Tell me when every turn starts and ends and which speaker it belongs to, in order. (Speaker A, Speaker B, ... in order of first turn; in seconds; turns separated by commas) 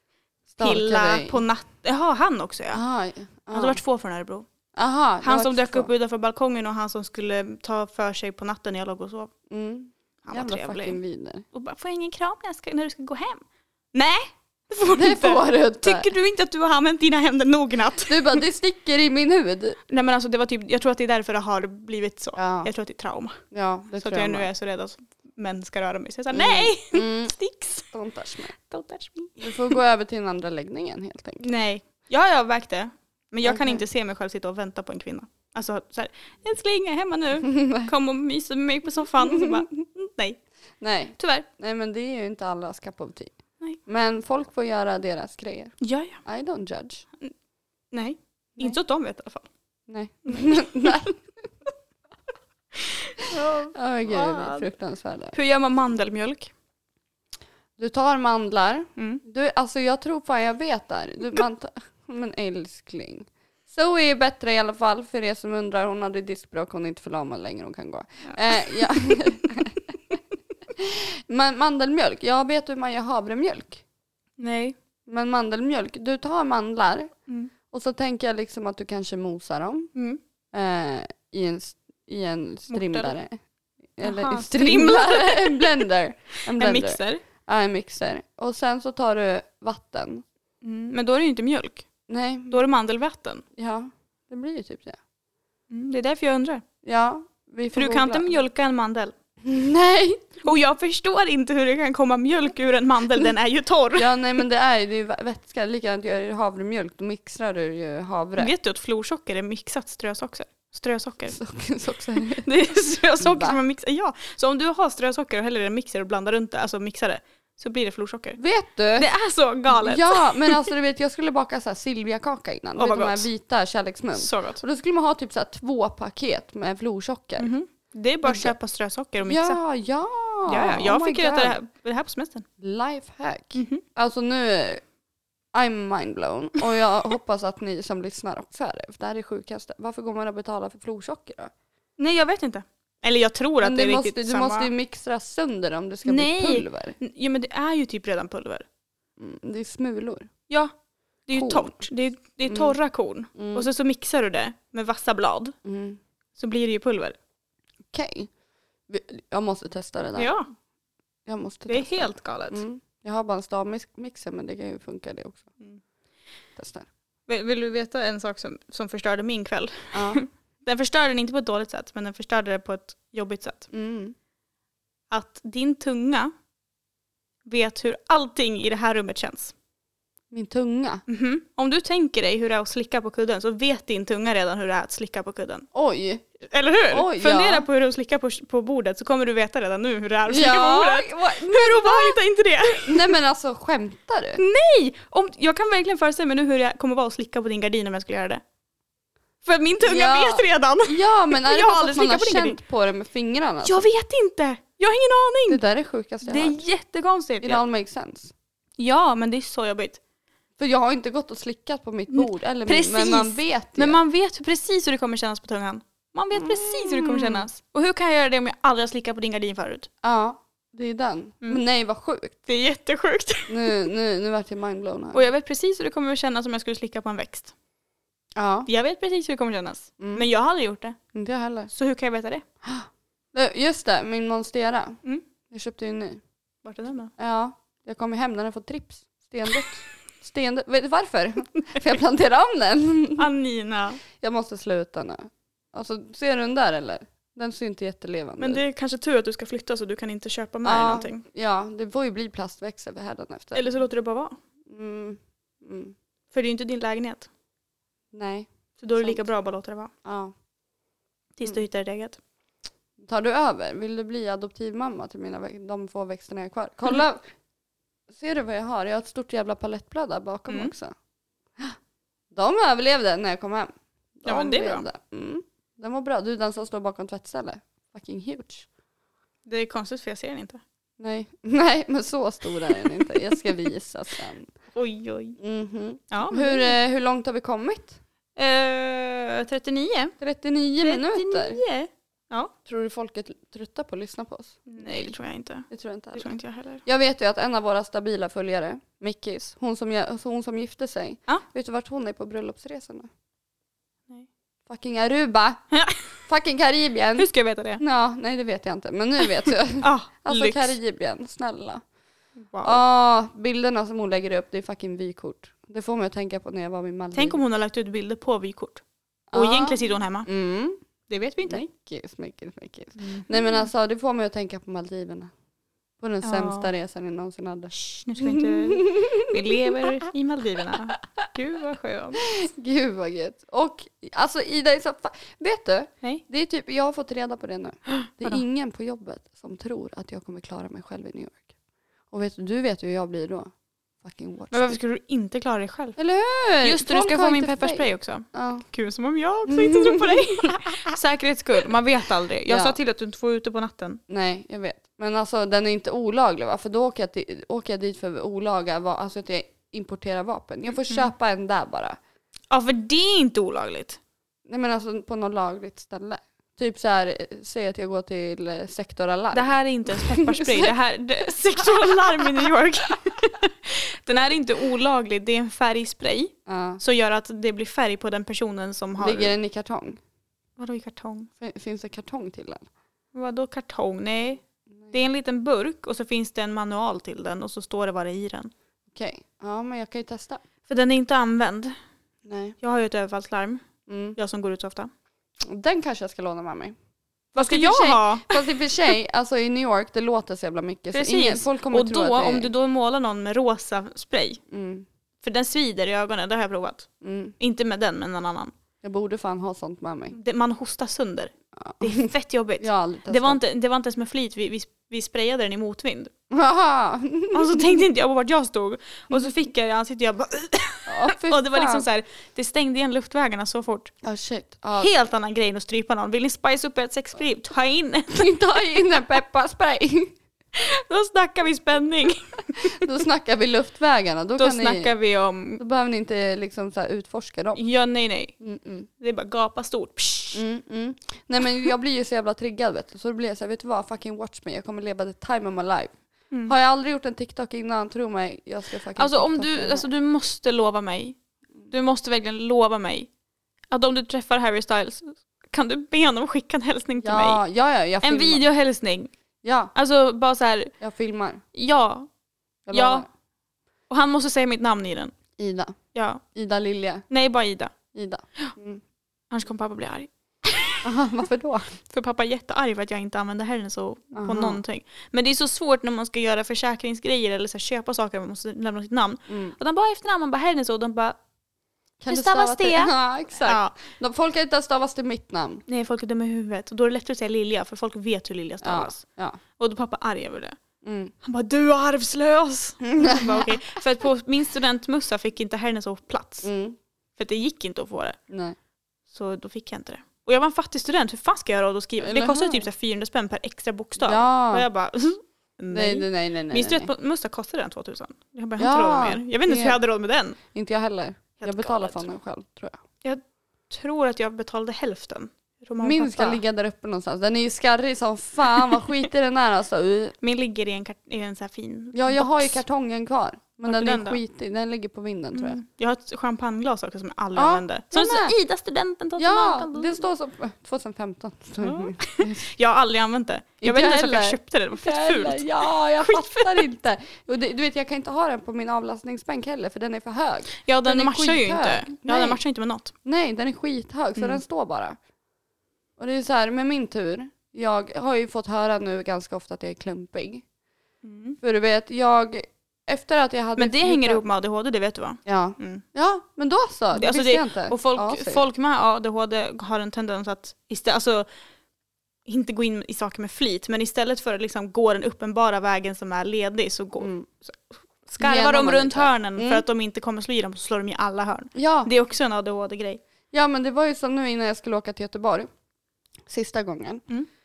Speaker A: 0.5-1.4, Speaker B: 0.6-2.8, Speaker A: 2.7-3.8, Speaker B: 3.5-4.5, Speaker A: 4.8-5.9, Speaker B: 5.2-9.3, Speaker A: 9.5-11.4, Speaker B: 10.2-11.0, Speaker B: 11.5-13.4, Speaker B: 13.9-18.4, Speaker A: 14.9-16.1, Speaker A: 18.1-19.8, Speaker B: 19.9-23.4, Speaker A: 22.4-22.7, Speaker A: 23.5-24.5, Speaker B: 24.0-27.9, Speaker A: 26.3-27.3, Speaker A: 27.9-28.5, Speaker B: 28.6-29.8, Speaker A: 29.4-31.5, Speaker B: 31.4-40.4, Speaker A: 33.4-33.8, Speaker A: 37.5-37.9, Speaker A: 39.3-39.6, Speaker A: 40.8-43.3, Speaker B: 41.2-41.5, Speaker A: 43.9-47.0, Speaker B: 45.8-46.2, Speaker B: 47.9-49.5, Speaker A: 49.9-51.2, Speaker B: 50.3-51.1, Speaker B: 52.8-54.7, Speaker A: 53.7-55.3, Speaker B: 55.3-56.5, Speaker A: 57.8-69.9, Speaker B: 59.0-59.2, Speaker B: 68.3-69.1, Speaker A: 70.8-73.8, Speaker B: 74.4-74.8, Speaker A: 75.1-77.1, Speaker A: 77.7-79.9, Speaker B: 80.0-80.2, Speaker A: 80.5-83.4, Speaker B: 82.7-83.1, Speaker A: 84.0-90.2, Speaker B: 84.0-85.8, Speaker B: 86.5-87.2, Speaker B: 90.6-91.9, Speaker A: 92.1-92.6, Speaker B: 92.5-93.4, Speaker A: 93.6-95.0, Speaker B: 95.7-96.6, Speaker A: 96.8-98.3, Speaker B: 97.7-99.1, Speaker A: 99.4-100.3, Speaker B: 100.4-104.1, Speaker A: 104.0-108.5, Speaker B: 108.4-111.4, Speaker A: 111.3-112.5, Speaker B: 112.3-118.4, Speaker A: 113.2-113.6, Speaker A: 118.4-119.1, Speaker B: 119.0-120.7, Speaker A: 119.7-127.5, Speaker B: 122.8-123.3, Speaker B: 124.2-124.6, Speaker B: 127.4-129.6, Speaker A: 128.2-128.6, Speaker A: 129.3-131.6, Speaker B: 130.5-132.4, Speaker A: 132.6-134.8, Speaker B: 133.6-133.8, Speaker A: 135.5-141.5, Speaker B: 142.0-144.7, Speaker A: 143.6-147.0, Speaker B: 146.1-148.7, Speaker A: 149.2-150.3, Speaker B: 151.3-155.6, Speaker A: 151.3-151.8, Speaker A: 152.5-152.8, Speaker A: 153.3-153.7, Speaker A: 155.7-156.0, Speaker B: 156.4-157.2, Speaker A: 157.9-158.3, Speaker A: 158.9-160.3, Speaker B: 160.2-160.5, Speaker A: 161.3-165.5, Speaker B: 161.7-162.6, Speaker A: 166.6-166.9, Speaker B: 167.3-173.7, Speaker A: 169.9-170.2, Speaker A: 173.7-174.2, Speaker B: 175.1-176.3, Speaker B: 177.5-179.5, Speaker A: 180.3-181.0, Speaker B: 181.1-185.7, Speaker A: 185.7-186.2, Speaker B: 186.4-193.1, Speaker A: 186.9-187.7, Speaker A: 190.3-192.2, Speaker A: 192.7-194.4, Speaker B: 194.4-198.4, Speaker B: 199.4-202.6, Speaker A: 199.8-203.9, Speaker B: 203.6-205.6, Speaker A: 205.5-206.6, Speaker B: 206.3-207.6, Speaker A: 207.4-208.3, Speaker B: 208.8-210.0, Speaker A: 210.6-214.0, Speaker B: 212.1-219.9, Speaker A: 216.3-217.5, Speaker A: 220.0-222.4, Speaker B: 222.5-223.8, Speaker A: 223.5-225.2, Speaker B: 225.1-227.5, Speaker A: 228.4-228.7, Speaker B: 228.7-231.0, Speaker A: 230.0-230.2, Speaker A: 231.1-231.7, Speaker B: 231.7-232.4, Speaker A: 232.6-236.2, Speaker B: 236.6-237.1, Speaker A: 237.2-243.3, Speaker B: 243.2-244.0, Speaker A: 244.2-248.6, Speaker B: 248.4-251.2, Speaker A: 250.6-253.7, Speaker B: 253.5-254.4, Speaker A: 254.7-255.9, Speaker B: 256.3-257.3, Speaker A: 258.1-259.2, Speaker B: 258.8-259.9, Speaker A: 260.1-260.3, Speaker B: 261.4-262.2, Speaker A: 263.0-267.2, Speaker A: 268.1-270.9, Speaker A: 272.3-278.7, Speaker B: 274.3-274.9, Speaker B: 279.5-280.6, Speaker A: 281.0-284.5, Speaker B: 284.7-285.4, Speaker A: 285.4-288.0, Speaker B: 286.1-286.8, Speaker B: 288.4-290.1, Speaker A: 290.2-291.6, Speaker B: 290.8-292.5, Speaker A: 292.7-295.1, Speaker B: 294.7-296.8, Speaker A: 295.7-296.3, Speaker A: 296.9-303.1, Speaker A: 304.7-305.6, Speaker B: 305.7-306.0, Speaker A: 306.3-307.3, Speaker B: 307.2-307.8, Speaker A: 307.8-311.8, Speaker B: 309.8-310.8, Speaker B: 312.5-312.8, Speaker A: 312.6-317.4, Speaker B: 317.1-318.8, Speaker A: 319.3-320.8, Speaker B: 319.3-320.3, Speaker B: 321.1-321.6, Speaker A: 321.5-325.3, Speaker B: 323.0-323.6, Speaker A: 326.0-329.8, Speaker B: 326.2-326.7, Speaker B: 327.7-332.2, Speaker A: 332.2-341.4, Speaker B: 337.9-338.4, Speaker A: 342.1-343.5, Speaker A: 344.0-344.8, Speaker B: 344.5-346.0, Speaker A: 346.0-348.7, Speaker B: 346.6-354.0, Speaker A: 349.5-350.8, Speaker A: 352.5-352.8, Speaker A: 354.1-362.0, Speaker B: 362.5-364.0, Speaker A: 364.5-370.7, Speaker B: 369.3-379.3, Speaker A: 376.5-376.8, Speaker A: 379.0-380.0, Speaker B: 380.6-381.3, Speaker A: 381.4-382.7, Speaker B: 383.1-388.5, Speaker A: 388.9-390.4, Speaker B: 390.7-391.8, Speaker A: 392.2-392.6, Speaker B: 392.6-393.6, Speaker A: 393.9-394.2, Speaker B: 394.2-394.9, Speaker A: 395.4-396.8, Speaker A: 397.4-402.5, Speaker B: 397.4-398.7, Speaker B: 400.9-404.4, Speaker A: 404.5-404.9, Speaker B: 405.2-406.9, Speaker A: 407.0-407.4, Speaker B: 407.4-408.5, Speaker A: 408.8-410.2, Speaker B: 410.1-416.1, Speaker A: 411.6-412.1, Speaker A: 412.6-413.4, Speaker A: 416.3-417.8, Speaker B: 417.3-423.9, Speaker A: 420.9-421.9, Speaker A: 424.0-424.9, Speaker B: 424.8-428.6, Speaker A: 428.1-430.1, Speaker B: 430.5-432.8, Speaker A: 432.6-434.9, Speaker B: 434.4-435.6, Speaker A: 435.6-437.6, Speaker B: 437.6-438.3, Speaker A: 438.4-438.9, Speaker B: 439.0-440.4, Speaker A: 440.3-445.9, Speaker A: 446.5-449.9, Speaker B: 448.9-451.2, Speaker B: 451.7-453.1, Speaker B: 453.7-457.4, Speaker A: 457.0-458.4, Speaker B: 458.0-459.1, Speaker A: 459.4-459.7, Speaker B: 459.7-460.7, Speaker A: 460.8-461.4, Speaker B: 461.6-462.1, Speaker A: 462.7-463.1, Speaker B: 462.7-463.1, Speaker B: 463.9-465.1, Speaker A: 465.4-465.8, Speaker B: 465.9-466.2, Speaker A: 466.4-467.1, Speaker B: 467.1-467.7, Speaker A: 467.9-468.8, Speaker B: 469.3-470.8, Speaker A: 470.8-471.8, Speaker B: 471.9-481.2, Speaker A: 474.2-474.6, Speaker A: 479.3-479.6, Speaker A: 482.0-485.6, Speaker B: 482.1-483.8, Speaker B: 485.7-489.0, Speaker A: 488.6-489.4, Speaker B: 489.6-490.6, Speaker A: 490.8-491.1, Speaker B: 491.2-496.5, Speaker A: 492.8-493.8, Speaker A: 496.4-496.8, Speaker B: 497.2-498.2, Speaker A: 498.3-498.6, Speaker B: 499.1-510.4, Speaker A: 502.0-502.6, Speaker A: 504.0-504.7, Speaker A: 505.7-506.9, Speaker A: 508.6-509.8, Speaker A: 510.5-512.8, Speaker B: 511.4-512.1, Speaker B: 513.0-516.4, Speaker A: 515.8-520.1, Speaker B: 520.2-522.6, Speaker A: 521.9-525.6, Speaker B: 523.7-524.2, Speaker B: 525.3-530.0, Speaker A: 527.4-528.4, Speaker A: 529.2-532.5, Speaker B: 531.6-536.6, Speaker A: 533.6-542.4, Speaker B: 540.6-542.9, Speaker A: 543.0-545.0, Speaker B: 544.2-544.4, Speaker A: 546.0-550.4, Speaker B: 551.0-551.4, Speaker A: 551.4-554.2, Speaker B: 553.6-555.8, Speaker A: 555.3-558.4, Speaker B: 557.0-561.3, Speaker B: 562.3-573.0, Speaker A: 567.0-567.3, Speaker A: 568.2-569.6, Speaker A: 571.5-571.9, Speaker A: 573.3-575.5, Speaker A: 576.3-577.0